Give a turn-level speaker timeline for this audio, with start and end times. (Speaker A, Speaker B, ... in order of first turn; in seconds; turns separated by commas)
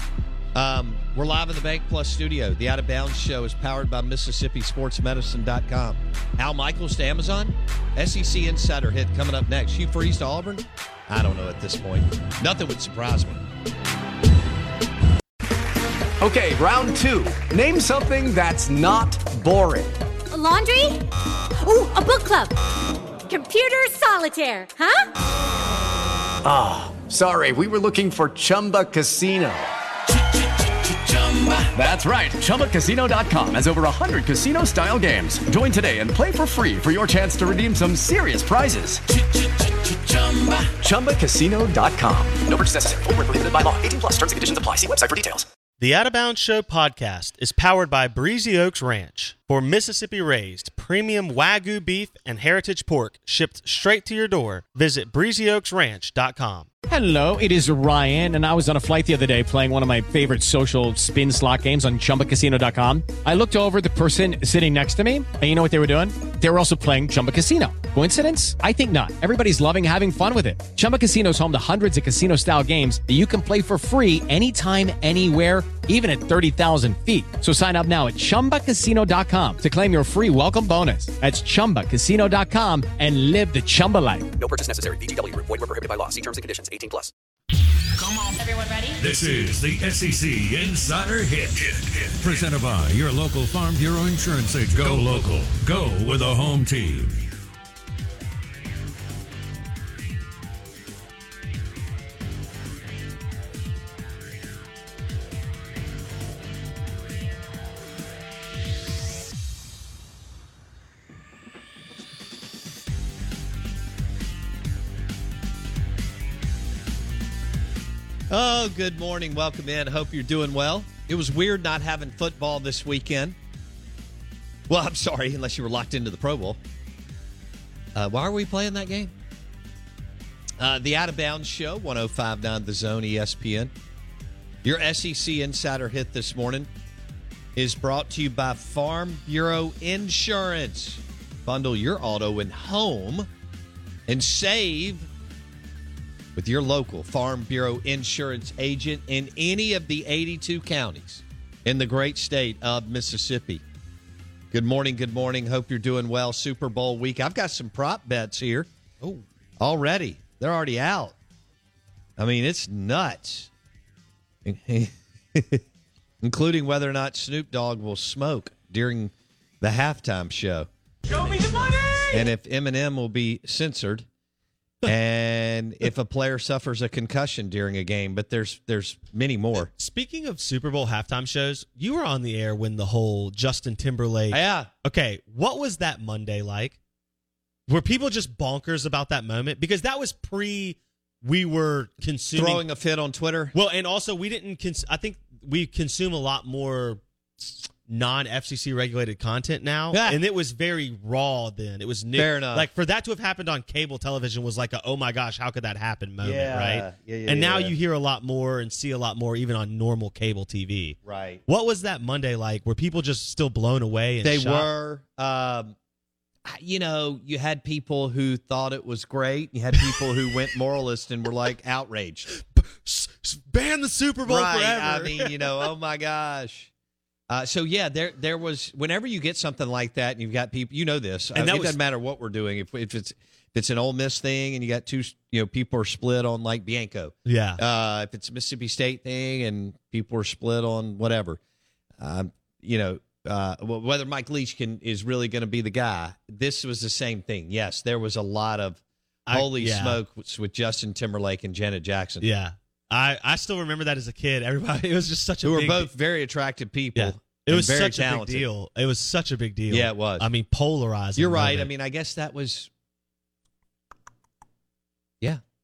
Speaker A: 0.5-13.4, Speaker B: 16.2-19.9, Speaker C: 20.3-21.0, Speaker C: 21.6-22.5, Speaker C: 23.3-25.1, Speaker B: 26.4-45.5, Speaker D: 45.8-56.7, Speaker E: 56.9-84.3, Speaker B: 84.4-87.1, Speaker F: 89.0-97.2, Speaker A: 118.3-123.4, Speaker A: 124.7-126.6, Speaker A: 127.9-129.1, Speaker A: 130.6-133.7, Speaker A: 134.6-136.7, Speaker A: 137.6-143.3, Speaker A: 144.1-145.1, Speaker A: 146.3-153.6, Speaker A: 154.5-158.7, Speaker A: 159.6-161.2, Speaker A: 162.2-163.5, Speaker A: 164.4-165.6, Speaker A: 166.2-170.7, Speaker A: 172.1-174.1, Speaker A: 174.8-179.7, Speaker D: 179.6-186.8, Speaker A: 184.3-184.7, Speaker D: 187.7-192.6, Speaker A: 192.3-193.5, Speaker D: 193.5-214.7, Speaker A: 199.9-200.2, Speaker A: 202.1-202.7, Speaker A: 206.2-207.7, Speaker A: 211.0-211.4, Speaker A: 214.2-215.7, Speaker A: 216.4-222.3, Speaker D: 222.3-225.7, Speaker A: 224.2-226.7, Speaker A: 227.3-241.4, Speaker D: 231.3-231.8, Speaker D: 237.2-237.6, Speaker A: 242.0-252.3, Speaker D: 249.3-250.0, Speaker D: 252.2-255.9, Speaker A: 255.4-258.5, Speaker D: 256.9-261.7, Speaker A: 259.7-260.3, Speaker A: 261.1-262.7